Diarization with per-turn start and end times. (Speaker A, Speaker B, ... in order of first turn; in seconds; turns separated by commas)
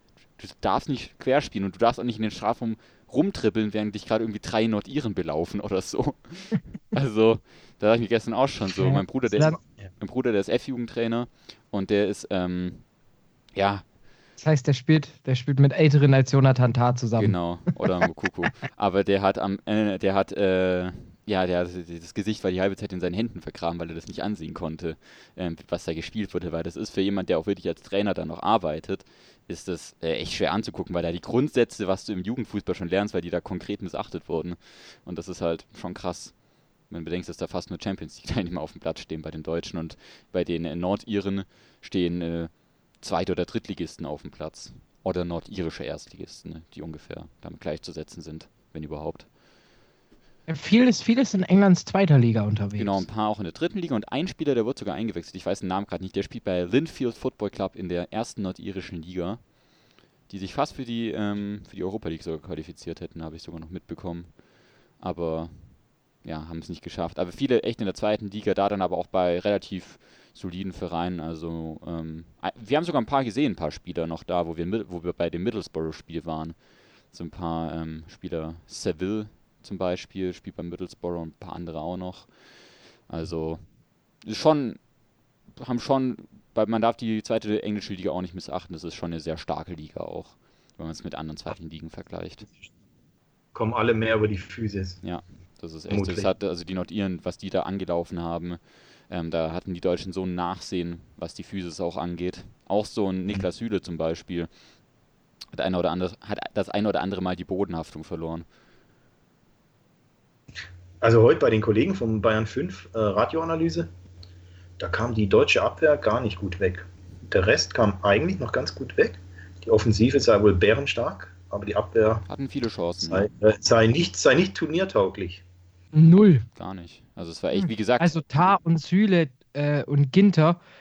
Speaker A: 0.3-12.8, Speaker B: 8.7-9.6, Speaker A: 13.5-13.8, Speaker B: 14.4-17.3, Speaker A: 17.2-49.3, Speaker B: 50.5-53.0, Speaker A: 52.8-59.5, Speaker A: 60.3-64.4, Speaker A: 65.0-76.6, Speaker A: 77.1-82.3, Speaker A: 83.1-83.6, Speaker A: 84.2-84.8, Speaker A: 85.5-92.5, Speaker C: 93.5-95.0, Speaker A: 95.0-104.5, Speaker C: 95.9-96.3, Speaker A: 105.5-108.5, Speaker C: 111.0-113.9, Speaker C: 114.8-122.2, Speaker A: 122.3-123.3, Speaker C: 123.1-125.4, Speaker B: 125.9-126.4, Speaker A: 126.5-128.2, Speaker B: 127.5-130.6